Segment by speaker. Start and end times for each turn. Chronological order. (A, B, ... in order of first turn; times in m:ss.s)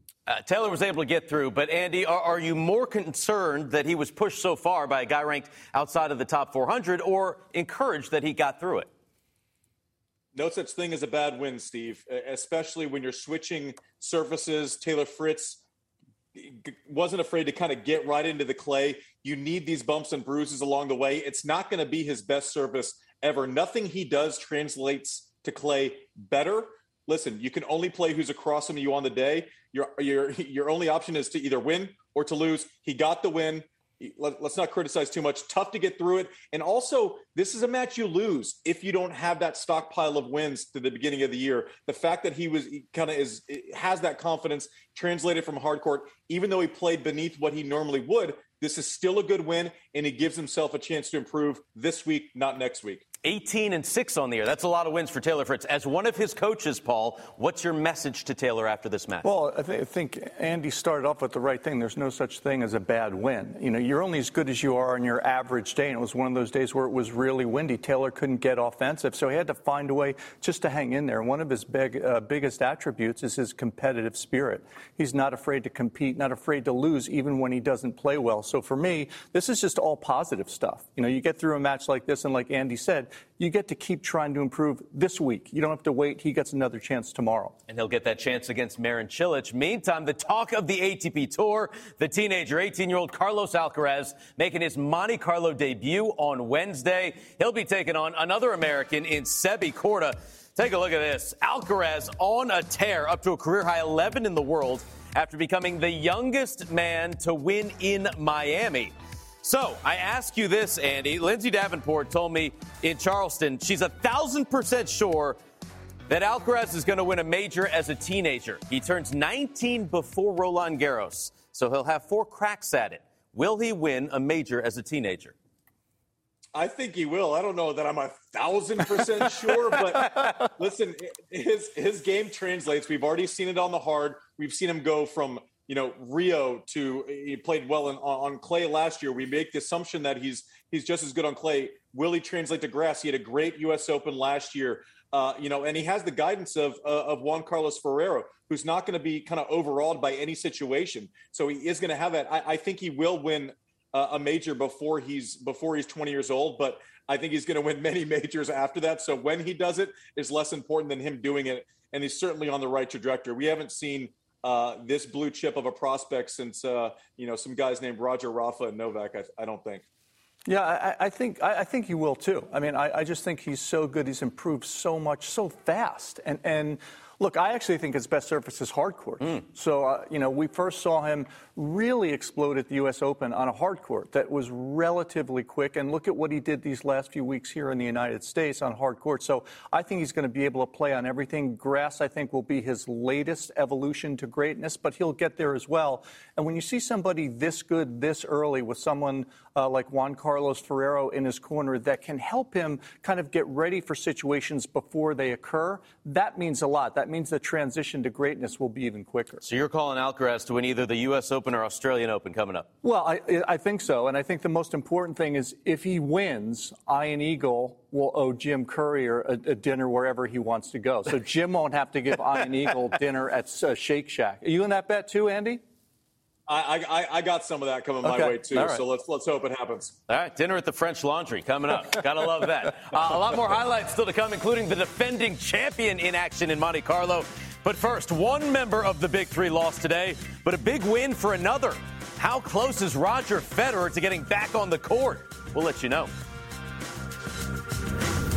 0:00.3-0:08.9 A
0:10.3-0:15.6 B
0:16.3-0:53.1 B
0:53.2-0:59.3 A
0:59.2-1:27.6 C
1:27.7-1:55.4 A
1:56.1-2:05.4 A
2:06.5-2:49.8 B
2:09.7-2:10.3 C
2:50.4-3:29.4 C
3:29.4-3:32.7 A
3:32.8-3:45.6 C
3:46.5-3:50.0 B
3:48.0-3:48.8 C
3:50.1-4:06.1 A